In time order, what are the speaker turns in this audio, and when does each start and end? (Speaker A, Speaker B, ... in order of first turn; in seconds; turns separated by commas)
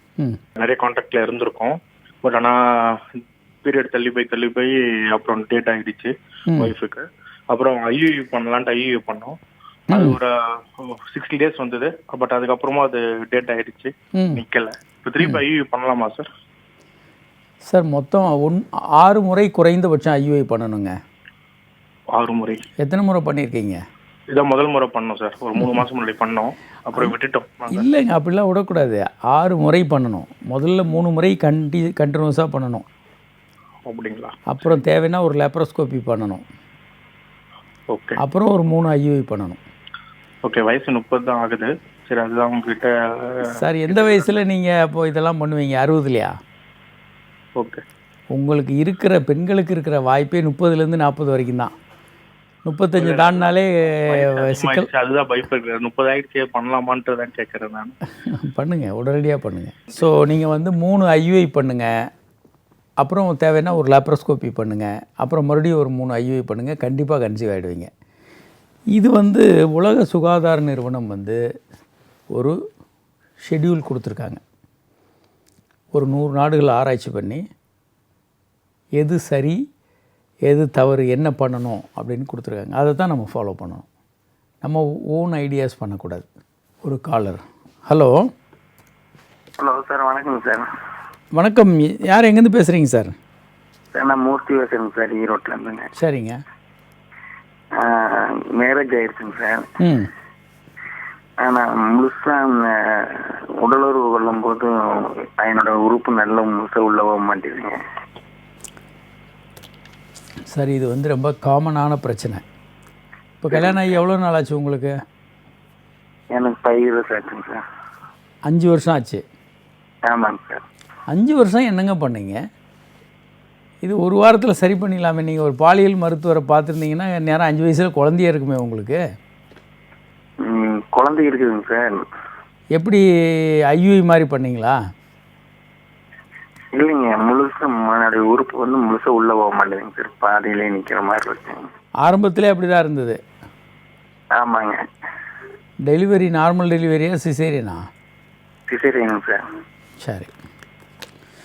Speaker A: 0.6-9.4, Speaker B: 9.9-10.2, Speaker A: 9.9-16.3, Speaker B: 14.2-14.4, Speaker B: 17.7-20.9, Speaker A: 22.1-22.6, Speaker B: 22.8-23.8, Speaker A: 24.3-27.9, Speaker B: 27.7-32.9, Speaker A: 33.9-34.3, Speaker B: 34.5-36.4, Speaker A: 37.9-38.2, Speaker B: 38.2-39.6, Speaker A: 40.4-44.3, Speaker B: 43.5-46.3, Speaker B: 48.3-51.7, Speaker B: 52.7-54.9, Speaker A: 53.0-58.0, Speaker B: 58.3-62.0, Speaker B: 63.0-67.9, Speaker B: 68.9-71.4, Speaker B: 73.5-74.4, Speaker B: 76.0-77.4, Speaker B: 79.0-79.6, Speaker B: 80.5-83.9, Speaker B: 84.6-86.2, Speaker B: 86.8-88.2, Speaker C: 89.6-90.7, Speaker B: 91.3-93.1, Speaker C: 93.9-95.9, Speaker B: 96.0-96.4, Speaker C: 97.8-99.7, Speaker B: 99.8-100.1, Speaker C: 101.4-107.8, Speaker B: 110.5-112.4, Speaker B: 113.4-114.9, Speaker C: 116.3-117.6, Speaker B: 118.5-119.2, Speaker C: 120.1-120.6, Speaker B: 121.1-122.4, Speaker B: 123.8-129.0, Speaker C: 130.4-132.0, Speaker B: 132.8-133.0, Speaker B: 133.7-134.8, Speaker C: 136.8-141.7, Speaker B: 142.0-143.2, Speaker C: 144.3-144.8, Speaker B: 145.8-147.8, Speaker C: 148.7-149.4, Speaker B: 150.0-150.3